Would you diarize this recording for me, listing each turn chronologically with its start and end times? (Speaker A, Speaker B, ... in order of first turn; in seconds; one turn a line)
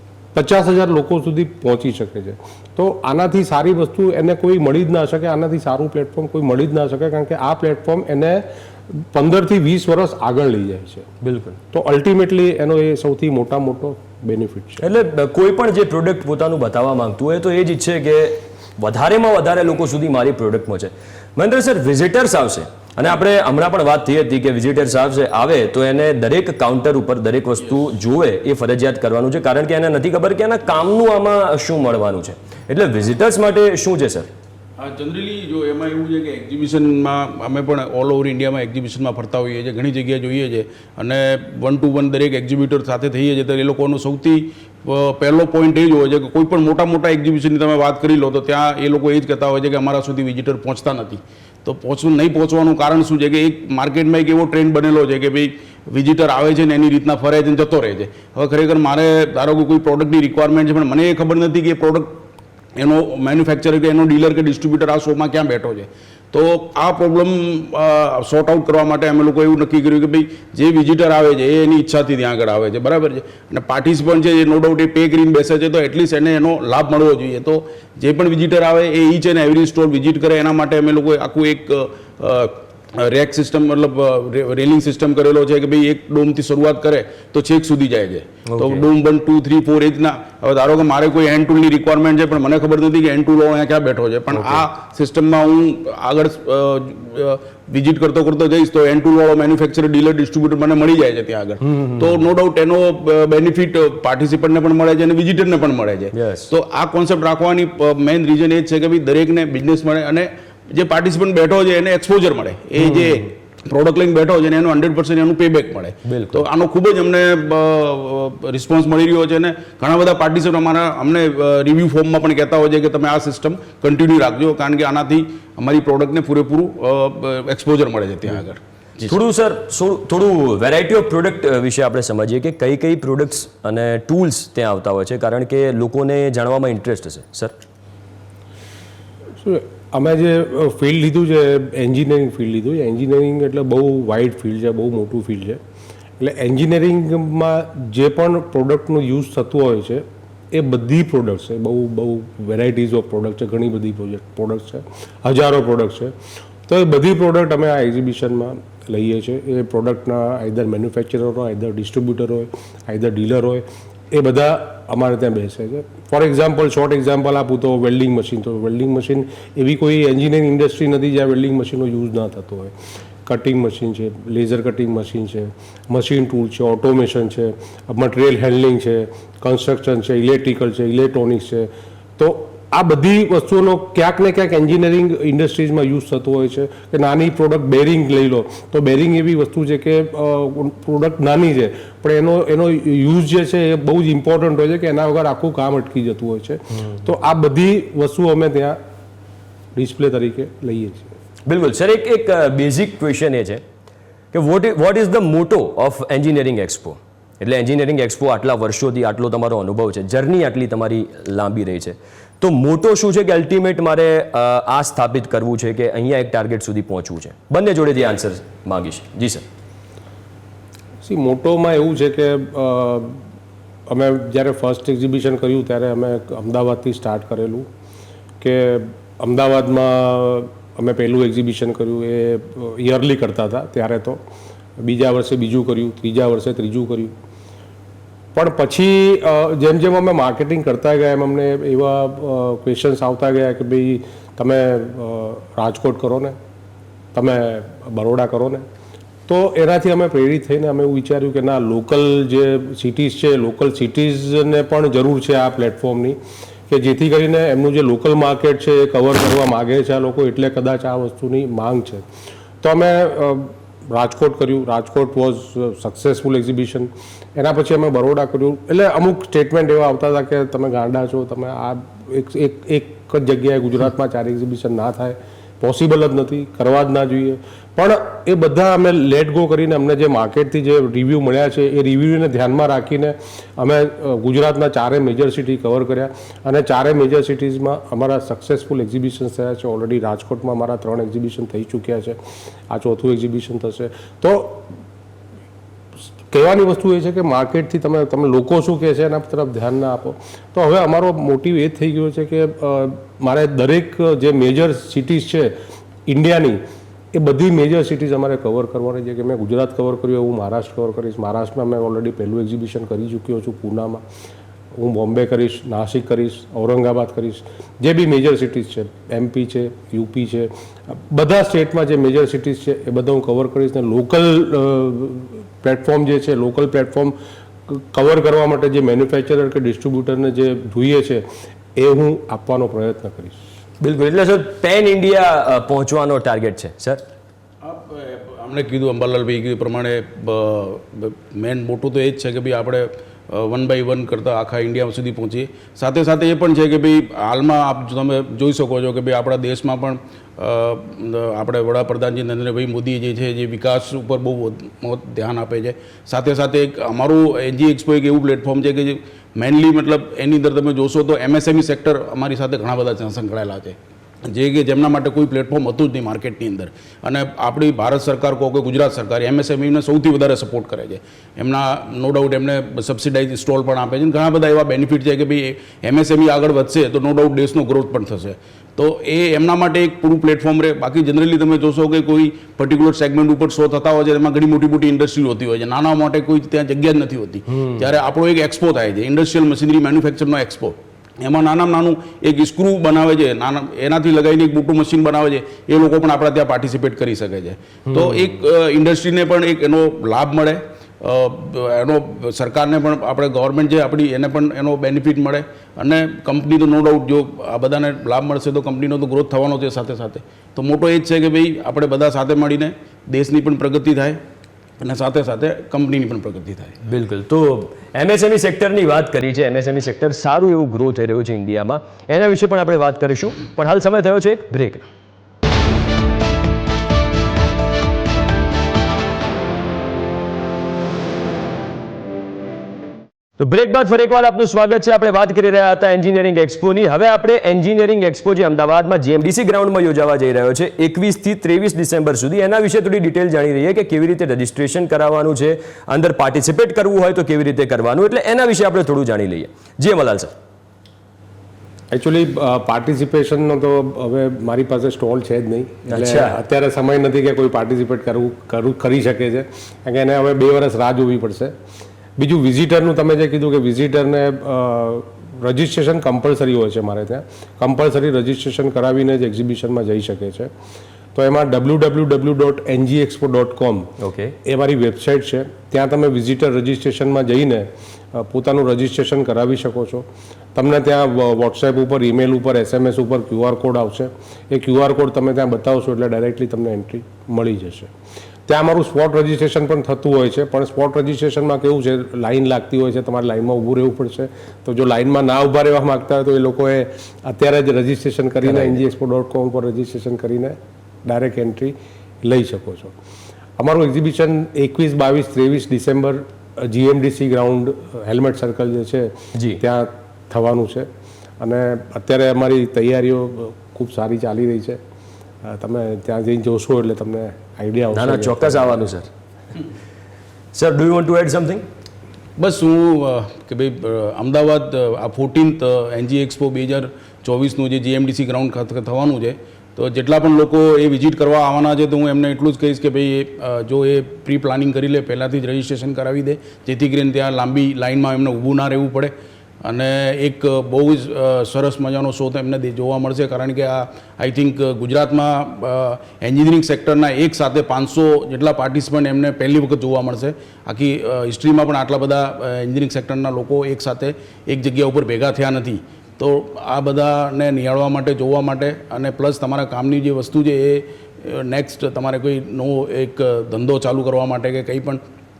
Speaker A: 0.3-11.1
Speaker B: 11.2-11.6
Speaker A: 11.7-14.8
Speaker B: 14.8-34.3
Speaker C: 34.8-62.2
Speaker C: 62.8-129.2
Speaker B: 88.5-88.9
Speaker B: 94.3-94.6
Speaker B: 101.8-102.1
Speaker B: 106.1-106.5
Speaker B: 112.8-113.2
Speaker B: 116.1-116.5
Speaker B: 129.1-137.6
Speaker A: 139.4-145.6
Speaker A: 146.2-156.1
Speaker A: 156.7-172.7
Speaker A: 173.3-198.8
Speaker A: 199.8-201.1
Speaker B: 201.5-203.6
Speaker B: 204.3-219.5
Speaker A: 221.0-223.2
Speaker A: 223.9-227.7
Speaker A: 228.4-234.2
Speaker A: 234.8-237.1
Speaker A: 238.3-246.4
Speaker A: 247.1-248.7
Speaker A: 249.3-256.2
Speaker A: 256.7-262.1
Speaker A: 262.6-294.7
Speaker A: 296.3-305.5
Speaker A: 306.1-306.6
Speaker A: 307.1-314.0
Speaker A: 314.8-327.2
Speaker A: 327.7-333.4
Speaker B: 333.8-337.0
Speaker C: 337.6-414.2
Speaker C: 414.8-416.8
Speaker B: 416.9-424.9
Speaker B: 433.4-450.3
Speaker A: 451.9-461.6
Speaker B: 455.9-456.4
Speaker A: 462.2-470.5
Speaker A: 471.1-487.9
Speaker B: 474.0-474.3
Speaker A: 488.5-502.9
Speaker B: 498.5-498.8
Speaker A: 503.6-510.9
Speaker B: 509.4-509.6
Speaker A: 511.4-514.8
Speaker A: 515.4-518.9
Speaker B: 517.9-519.1
Speaker B: 520.5-521.6
Speaker C: 522.4-539.1
Speaker C: 539.6-565.0